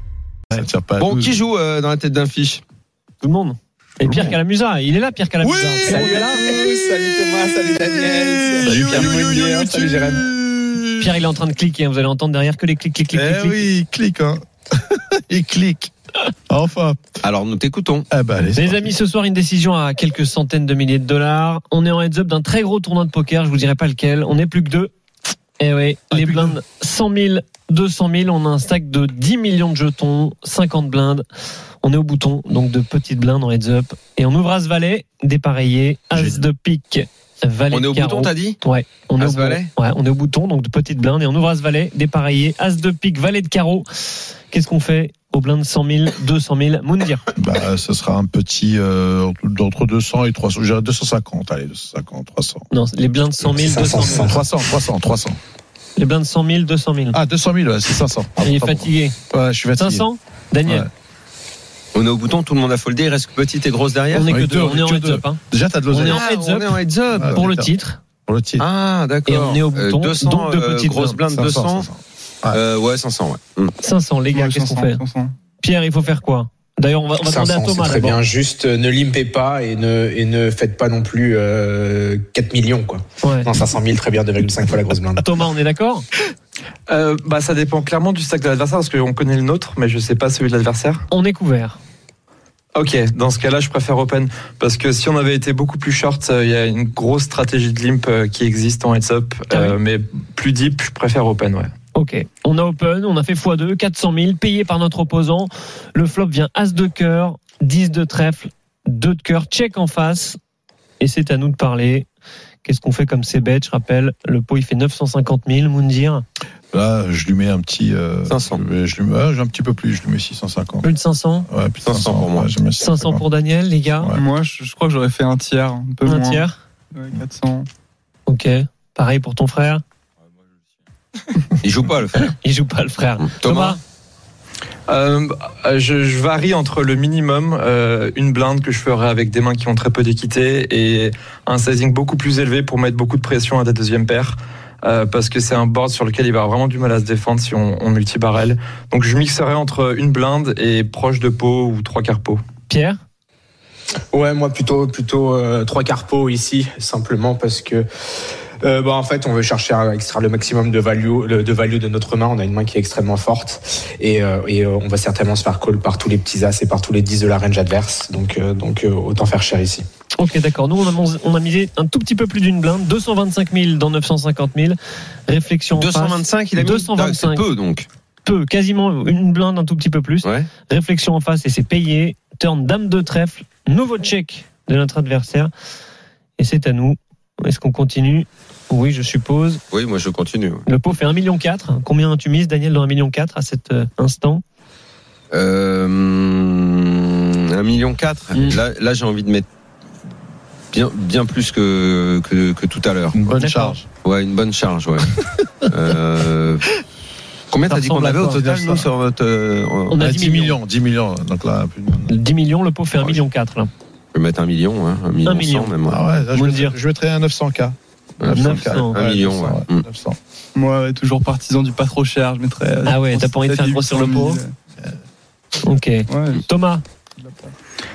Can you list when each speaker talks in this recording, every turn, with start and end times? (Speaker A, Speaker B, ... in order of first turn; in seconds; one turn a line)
Speaker A: 0.5-1.4
Speaker B: 1.0-2.6
Speaker C: 3.2-6.4
Speaker A: 4.0-4.4
Speaker B: 5.5-7.5
Speaker D: 5.8-10.3
Speaker A: 7.8-10.8
Speaker C: 11.0-13.6
Speaker A: 13.1-15.9
Speaker A: 16.5-17.1
Speaker B: 17.2-18.1
Speaker A: 18.1-18.9
Speaker C: 18.5-24.9
Speaker C: 25.6-31.2
Speaker A: 26.1-26.6
Speaker C: 31.8-47.2
Speaker B: 37.7-38.6
Speaker B: 39.2-39.7
Speaker A: 47.4-52.7
Speaker C: 52.7-54.4
Speaker D: 53.5-54.4
Speaker A: 53.9-55.4
Speaker C: 56.0-57.2
Speaker A: 57.1-60.1
Speaker C: 58.4-59.1
Speaker C: 59.7-60.9
Speaker B: 61.9-64.3
Speaker C: 64.1-66.8
Speaker A: 64.3-66.2
Speaker B: 66.0-67.4
Speaker A: 67.1-67.7
Speaker C: 67.3-68.0
Speaker A: 68.3-68.6
Speaker B: 68.6-71.9
Speaker C: 69.2-71.2
Speaker A: 71.3-72.6
Speaker B: 72.5-73.7
Speaker C: 73.8-75.0
Speaker E: 74.3-75.3
Speaker C: 75.6-78.2
Speaker D: 77.2-85.2
Speaker C: 83.2-83.5
Speaker C: 85.2-86.1
Speaker F: 86.9-91.0
Speaker C: 91.1-91.8
Speaker F: 92.7-101.7
Speaker C: 99.5-99.8
Speaker C: 101.9-110.4
Speaker C: 111.0-112.1
Speaker C: 112.6-116.2
Speaker A: 116.7-120.9
Speaker B: 118.3-118.6
Speaker C: 120.8-121.5
Speaker A: 121.5-123.2
Speaker B: 121.8-122.5
Speaker C: 122.8-124.1
Speaker E: 124.2-127.7
Speaker C: 126.0-126.5
Speaker C: 128.3-129.8
Speaker B: 131.6-132.3
Speaker C: 132.1-133.8
Speaker B: 133.2-133.8
Speaker F: 134.9-152.4
Speaker C: 152.7-153.0
Speaker D: 154.1-157.8
Speaker D: 158.6-169.8
Speaker C: 170.2-177.4
Speaker B: 175.8-177.9
Speaker C: 178.2-185.5
Speaker B: 180.2-180.5
Speaker C: 186.4-189.6
Speaker B: 189.7-190.7
Speaker C: 190.7-194.4
Speaker B: 195.3-199.4
Speaker B: 200.7-203.2
Speaker A: 203.1-203.8
Speaker C: 203.4-203.8
Speaker B: 204.0-205.1
Speaker B: 205.7-206.6
Speaker B: 207.5-210.0
Speaker C: 207.7-208.5
Speaker A: 208.5-208.8
Speaker C: 209.9-210.6
Speaker A: 210.0-212.2
Speaker C: 212.1-213.7
Speaker B: 214.1-216.1
Speaker C: 215.2-215.7
Speaker A: 215.8-220.2
Speaker C: 216.3-216.8
Speaker B: 218.2-219.8
Speaker C: 218.3-219.0
Speaker E: 220.5-224.5
Speaker C: 222.8-224.4
Speaker C: 225.6-226.8
Speaker E: 226.1-226.4
Speaker E: 227.2-227.5